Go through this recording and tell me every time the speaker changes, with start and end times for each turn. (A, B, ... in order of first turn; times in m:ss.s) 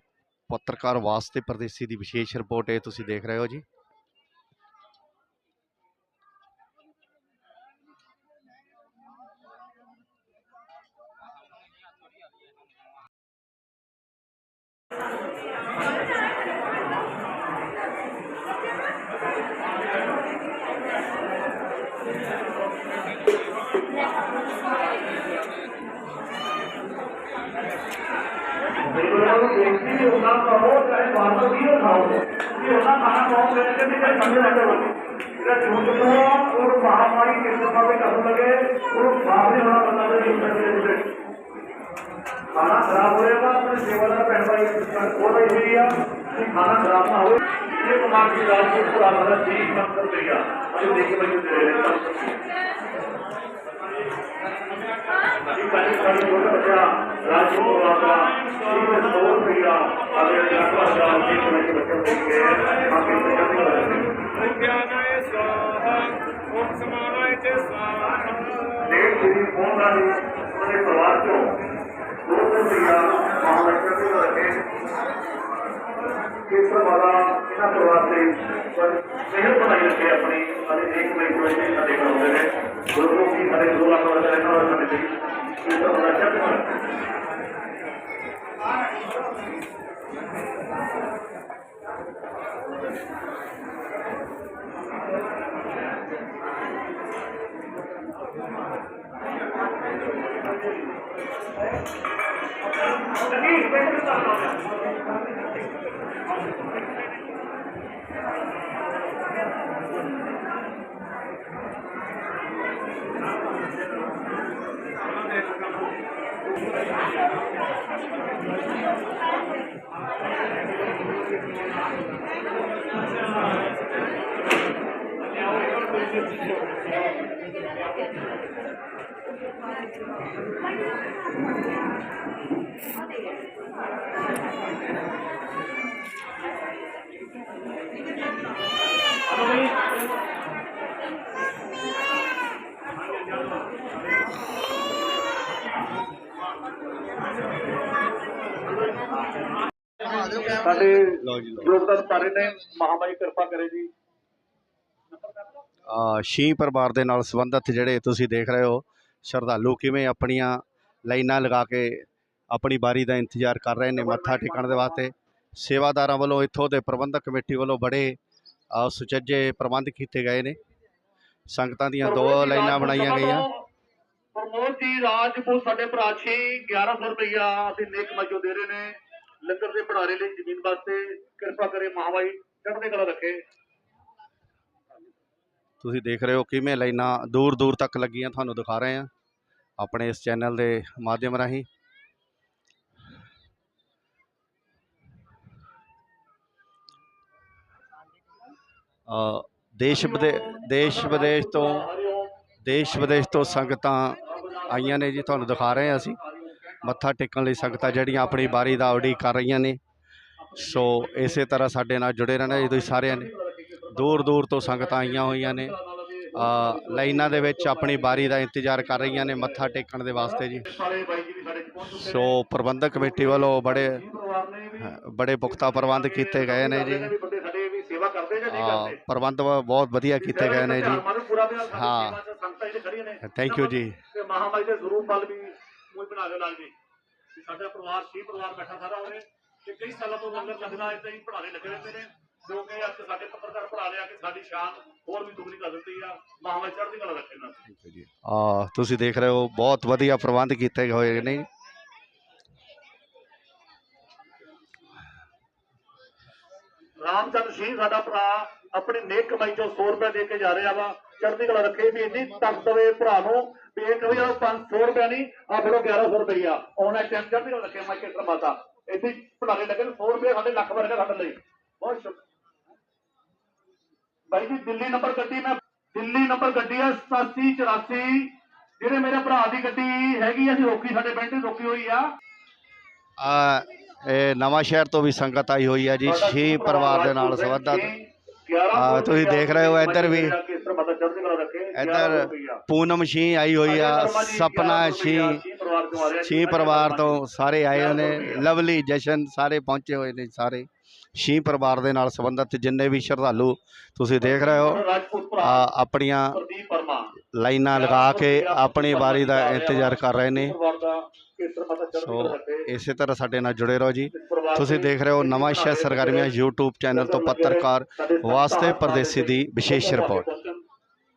0:00.5-0:03.6 A
0:28.9-0:41.1 B
0:42.5-0:52.4 B
0:55.5-1:04.2 B
1:04.4-1:08.7 C
1:08.8-1:11.6 B
1:12.2-1:14.6 B
1:16.5-1:25.1 B
1:25.6-1:26.7 B
1:39.9-1:41.1 B
1:43.0-1:45.5 B
2:05.5-2:06.2 B
2:19.4-2:19.7 B
2:28.8-2:33.9 B
2:31.2-2:31.7 A
2:35.1-2:35.6 B
2:35.9-2:48.2 A
2:43.9-2:45.0 B
2:48.7-2:50.6 A
2:51.5-2:53.4 A
2:52.0-2:53.5 B
2:54.3-3:03.4 B
3:05.8-3:09.1 A
3:09.8-3:11.7 A
3:19.1-3:21.9 A
3:19.9-3:29.2 B
3:22.6-3:24.2 A
3:24.7-3:26.2 A
3:26.8-3:29.8 A
3:30.4-3:31.6 B
3:30.6-3:33.3 A
3:32.4-3:42.4 B
3:33.9-3:35.7 A
3:36.3-3:40.7 A
3:41.9-3:44.0 A
3:42.9-3:49.0 B
3:44.8-3:47.1 A
3:48.5-3:51.0 A
3:50.2-3:56.7 B
3:51.7-3:52.2 A
3:53.2-3:54.0 A
3:57.4-4:07.6 B
4:07.7-4:11.4 A
4:17.0-4:32.2 B
4:34.3-4:42.0 B
4:43.2-4:47.9 A
4:46.0-4:52.6 B
4:48.7-4:50.4 A
4:51.7-4:55.4 A
4:53.6-4:58.5 B
4:56.0-5:04.8 A
5:04.2-5:05.7 B
5:05.4-5:06.4 A
5:06.3-5:07.1 B
5:07.3-5:10.6 A
5:07.7-5:12.7 B
5:11.9-5:20.3 A
5:14.1-5:16.3 B
5:16.9-5:20.6 B